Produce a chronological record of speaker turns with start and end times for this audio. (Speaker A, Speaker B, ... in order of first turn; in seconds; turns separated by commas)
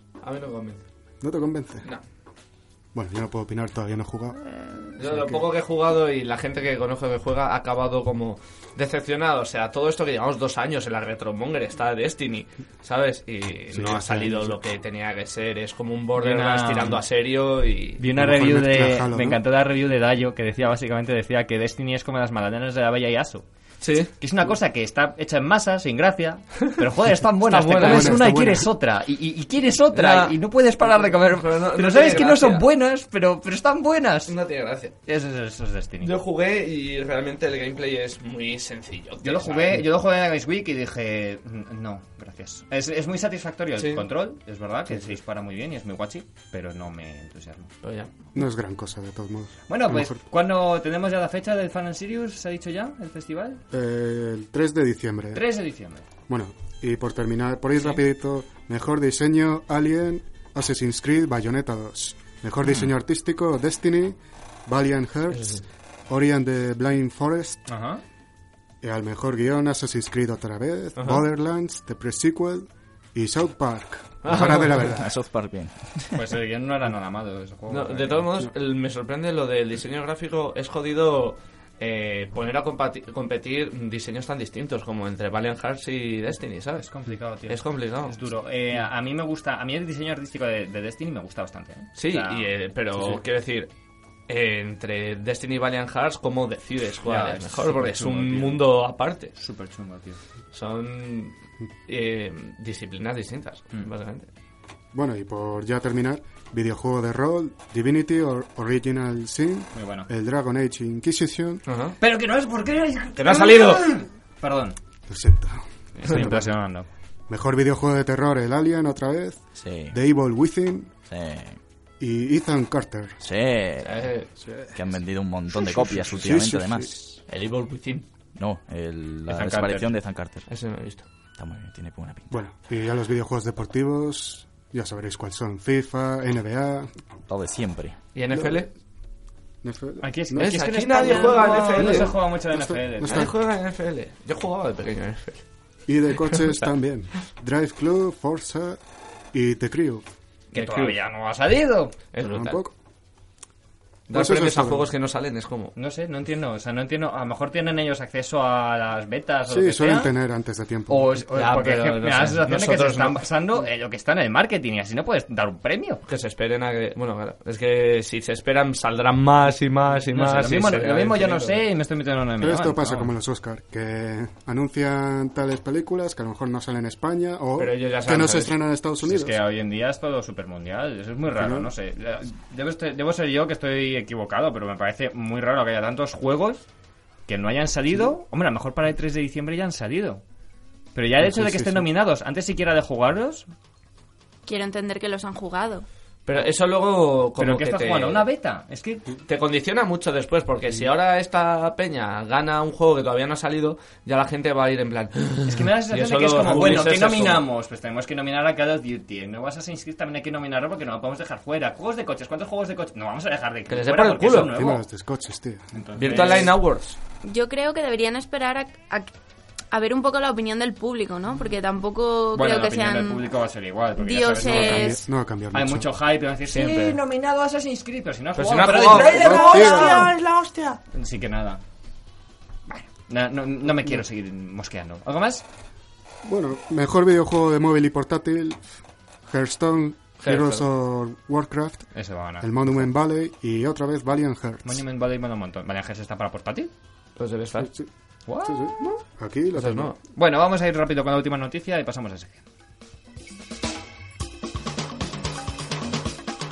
Speaker A: 0.2-0.8, Speaker B: 1.2-1.9, Speaker B: 2.9-5.5, Speaker A: 5.0-18.0, Speaker B: 13.7-14.6, Speaker C: 16.2-17.0, Speaker C: 18.0-23.4, Speaker B: 18.1-19.4, Speaker A: 23.8-24.1, Speaker C: 24.2-34.4, Speaker A: 27.4-28.2, Speaker B: 27.8-28.7, Speaker A: 29.9-32.7, Speaker A: 34.3-35.0, Speaker C: 35.1-36.1, Speaker A: 36.0-39.9, Speaker C: 39.2-47.7, Speaker A: 43.8-44.1, Speaker A: 47.8-48.1, Speaker B: 48.4-50.2, Speaker C: 49.7-53.6, Speaker B: 53.7-55.4, Speaker C: 55.3-56.0, Speaker B: 56.3-67.7, Speaker A: 65.3-65.6, Speaker C: 67.7-68.0, Speaker B: 68.8-75.1, Speaker A: 71.0-71.2, Speaker A: 74.2-75.0, Speaker D: 74.7-76.2, Speaker C: 76.1-78.3, Speaker A: 77.7-86.9, Speaker C: 86.8-92.5, Speaker A: 87.5-88.2, Speaker A: 92.0-93.7, Speaker A: 94.3-99.3, Speaker C: 97.0-98.7, Speaker C: 99.4-100.2, Speaker A: 100.5-101.3, Speaker A: 101.9-104.3, Speaker B: 104.9-111.6, Speaker C: 109.7-110.1, Speaker A: 111.7-112.0, Speaker C: 112.0-114.8, Speaker A: 113.2-113.9, Speaker B: 115.1-116.6, Speaker C: 116.0-116.9, Speaker B: 117.3-120.9, Speaker D: 119.6-120.0, Speaker D: 121.1-121.6, Speaker B: 122.0-123.2, Speaker D: 123.2-124.1, Speaker A: 123.8-124.3, Speaker B: 124.4-124.8, Speaker D: 124.7-127.1, Speaker B: 125.5-127.1, Speaker A: 127.3-128.1, Speaker D: 128.4-130.5, Speaker C: 129.3-129.9, Speaker A: 130.5-131.1, Speaker D: 131.4-132.4, Speaker B: 132.3-136.9, Speaker D: 137.3-138.0, Speaker A: 138.2-138.7, Speaker B: 138.3-138.7, Speaker B: 139.6-143.3, Speaker C: 140.0-143.3, Speaker A: 140.4-142.2, Speaker A: 143.0-145.4, Speaker B: 145.9-148.8, Speaker B: 149.3-150.1, Speaker C: 150.5-151.9, Speaker A: 150.5-151.0, Speaker A: 152.1-152.6, Speaker B: 152.2-152.7, Speaker B: 154.1-154.9, Speaker A: 154.1-155.7, Speaker C: 155.8-160.1, Speaker B: 159.5-161.2, Speaker C: 160.9-166.0, Speaker A: 161.3-163.2, Speaker A: 166.1-171.6, Speaker C: 170.1-173.1, Speaker B: 172.4-179.4, Speaker A: 177.6-178.6, Speaker C: 179.0-186.7, Speaker B: 181.3-181.7, Speaker C: 187.3-190.2, Speaker C: 190.9-193.5, Speaker B: 191.2-191.9, Speaker E: 194.5-195.8, Speaker A: 196.3-198.3, Speaker C: 197.4-199.1, Speaker A: 199.3-207.5, Speaker C: 205.4-214.8, Speaker A: 213.7-214.6, Speaker B: 214.4-216.4, Speaker C: 215.7-216.6, Speaker A: 216.0-217.0, Speaker E: 217.2-219.1, Speaker E: 219.7-223.3, Speaker C: 222.3-225.0, Speaker E: 224.0-225.1, Speaker B: 224.4-225.9, Speaker C: 225.5-230.1, Speaker A: 226.5-227.0, Speaker A: 228.4-230.8, Speaker B: 228.9-230.1, Speaker C: 230.9-231.6, Speaker C: 232.7-235.4, Speaker B: 233.7-234.0, Speaker B: 236.2-238.7, Speaker B: 239.3-244.8, Speaker A: 240.2-240.7, Speaker C: 241.9-242.9, Speaker C: 244.6-246.7, Speaker A: 247.2-247.7, Speaker B: 247.6-247.9, Speaker C: 248.3-248.6, Speaker B: 248.4-250.0, Speaker A: 249.5-250.0, Speaker C: 250.1-252.4